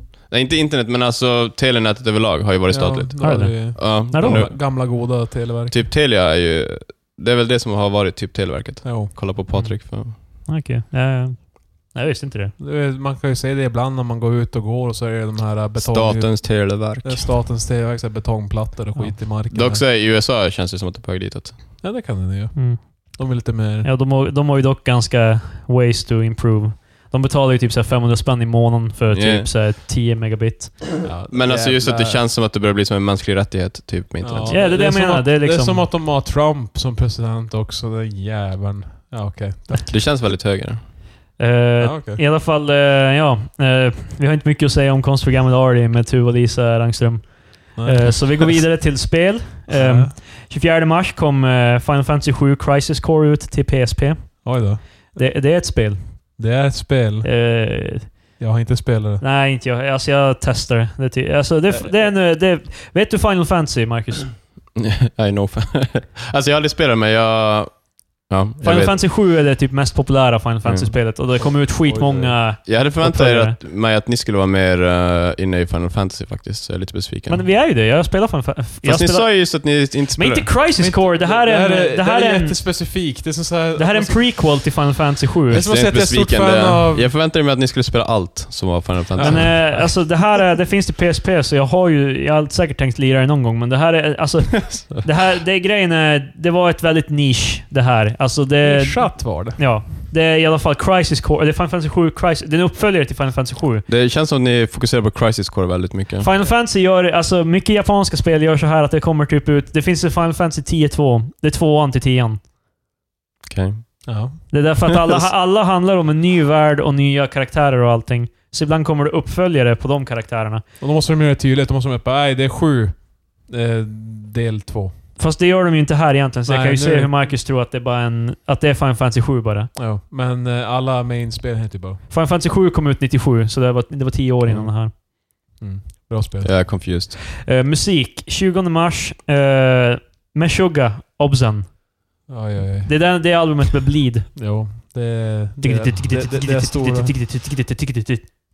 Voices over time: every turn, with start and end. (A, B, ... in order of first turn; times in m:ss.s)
0:00.3-0:04.6 A
0:02.7-0:05.8 B
0:03.2-0:04.4 C
0:05.7-0:10.1 A
0:08.8-0:09.6 B
0:09.5-0:12.5 C
0:12.6-0:19.8 B
0:15.8-0:17.3 A
0:19.5-0:21.6 A
0:21.8-0:23.9 B
0:22.5-0:23.2 C
0:23.8-0:30.9 C
0:29.1-0:29.5 A
0:31.0-0:32.2 B
0:31.3-0:34.6 A
0:34.2-0:40.0 B
0:34.5-0:35.9 C
0:39.9-0:40.8 A
0:41.4-0:56.4 C
0:41.8-0:42.2 B
0:47.8-0:48.6 B
0:49.7-0:50.1 B
0:54.4-0:55.2 B
0:56.4-0:57.4 B
0:57.2-0:58.2 C
0:58.4-0:59.2 B
0:59.2-1:04.3 C
1:04.7-1:09.0 A
1:08.6-1:13.6 C
1:10.6-1:10.9 A
1:11.4-1:12.4 B
1:12.6-1:17.4 A
1:17.3-1:22.6 C
1:18.8-1:20.5 A
1:20.8-1:24.5 B
1:23.8-1:25.6 C
1:25.5-1:29.9 A
1:25.5-1:27.1 B
1:29.2-1:30.2 B
1:29.2-1:43.8 C
1:38.6-1:39.7 B
1:43.9-1:46.3 A
1:46.2-1:52.4 C
1:53.5-1:54.0 A
1:54.1-1:54.5 B
1:54.5-2:00.6 C
2:00.8-2:04.9 B
2:05.2-2:09.7 C
2:06.5-2:07.2 B
2:09.8-2:12.0 B
2:12.1-2:14.9 C
2:15.6-2:16.5 B
2:16.4-2:17.2 A
2:17.4-2:21.8 C
2:22.3-2:23.0 B
2:22.8-2:24.4 C
2:24.4-2:27.2 B
2:25.6-2:28.2 C